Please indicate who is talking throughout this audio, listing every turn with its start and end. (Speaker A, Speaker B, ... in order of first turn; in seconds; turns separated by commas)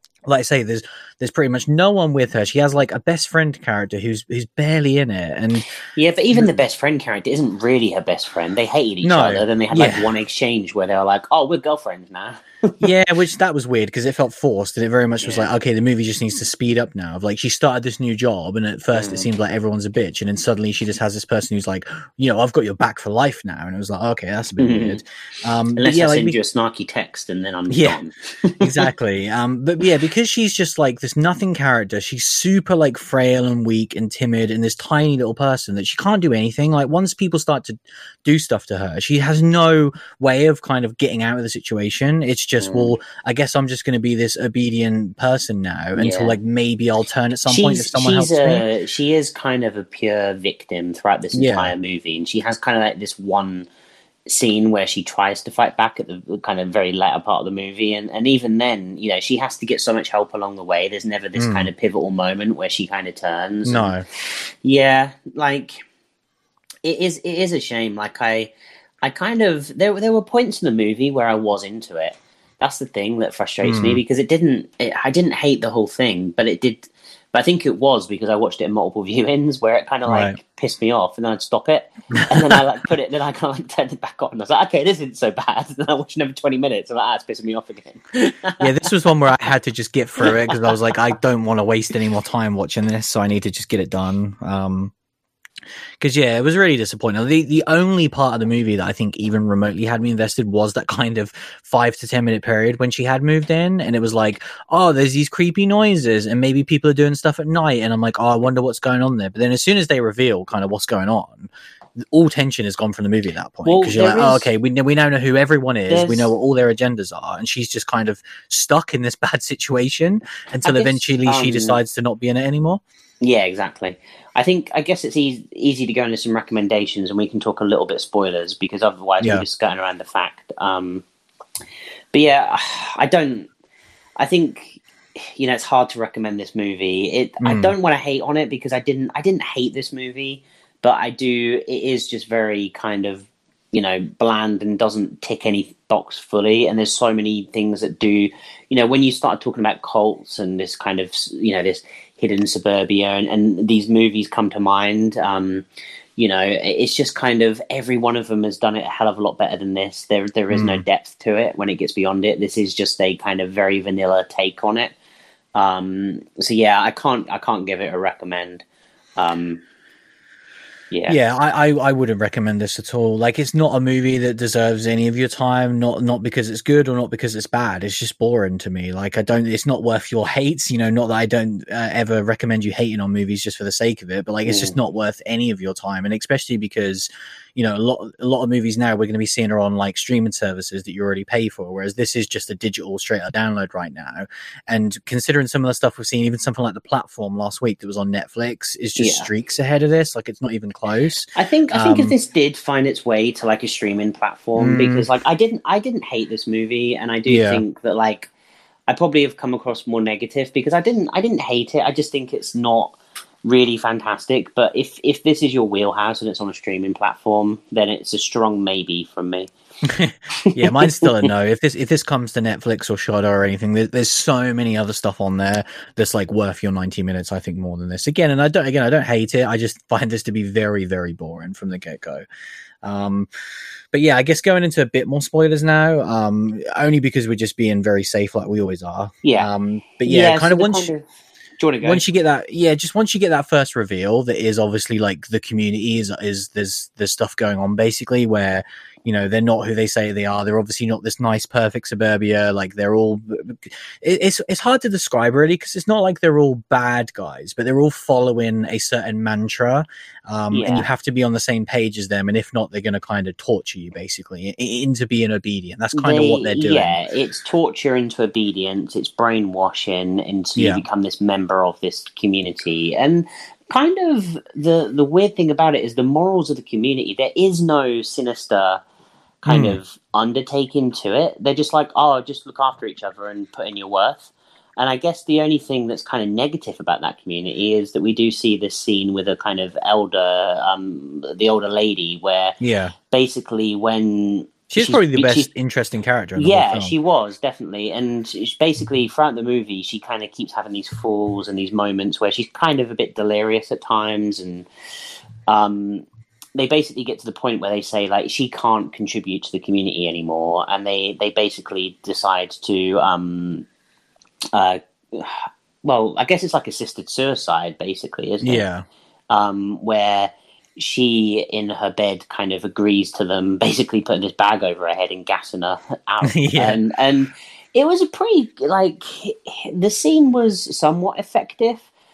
Speaker A: 0.3-5.7, Speaker B: 6.0-12.8, Speaker A: 9.0-10.1, Speaker A: 12.8-26.4, Speaker B: 15.2-15.5, Speaker B: 18.9-19.3, Speaker B: 24.6-25.0, Speaker B: 25.8-28.9, Speaker A: 27.7-28.0, Speaker A: 28.6-48.6, Speaker B: 42.6-42.9, Speaker B: 46.0-46.4, Speaker B: 47.5-53.7, Speaker A: 51.3-51.8, Speaker B: 54.3-63.9, Speaker A: 61.4-61.7, Speaker A: 63.6-64.0, Speaker B: 64.6-65.8, Speaker B: 66.8-68.5, Speaker B: 69.0-88.9, Speaker A: 73.6-74.0, Speaker A: 80.1-80.4, Speaker A: 88.6-94.9, Speaker B: 90.2-90.7, Speaker A: 96.0-122.8, Speaker B: 113.6-114.5, Speaker B: 115.9-116.3, Speaker B: 120.6-121.8, Speaker B: 123.2-131.1, Speaker B: 132.1-133.5, Speaker B: 134.2-155.6, Speaker A: 137.4-137.7, Speaker B: 156.2-165.0, Speaker A: 160.5-160.8, Speaker B: 165.5-168.7, Speaker B: 169.2-169.6, Speaker B: 170.9-171.2, Speaker A: 171.1-202.2, Speaker B: 184.4-184.8, Speaker B: 199.0-199.3, Speaker B: 201.4-208.3, Speaker A: 204.6-205.1, Speaker A: 207.2-207.6, Speaker B: 208.9-219.5, Speaker A: 219.8-232.2, Speaker B: 220.4-221.3, Speaker A: 232.8-233.3, Speaker A: 233.9-240.9, Speaker B: 239.2-239.5, Speaker B: 240.0-241.0, Speaker B: 241.6-242.0, Speaker A: 241.8-267.0, Speaker B: 260.5-260.9, Speaker B: 265.9-278.8, Speaker A: 270.6-270.8, Speaker B: 279.4-292.6, Speaker A: 279.5-279.8, Speaker A: 292.6-292.9, Speaker B: 293.1-295.5, Speaker A: 294.7-296.9, Speaker B: 296.4-304.7, Speaker B: 305.5-306.0, Speaker B: 306.6-313.6, Speaker B: 314.5-318.6, Speaker A: 318.4-318.9, Speaker B: 319.3-331.9, Speaker A: 326.3-326.8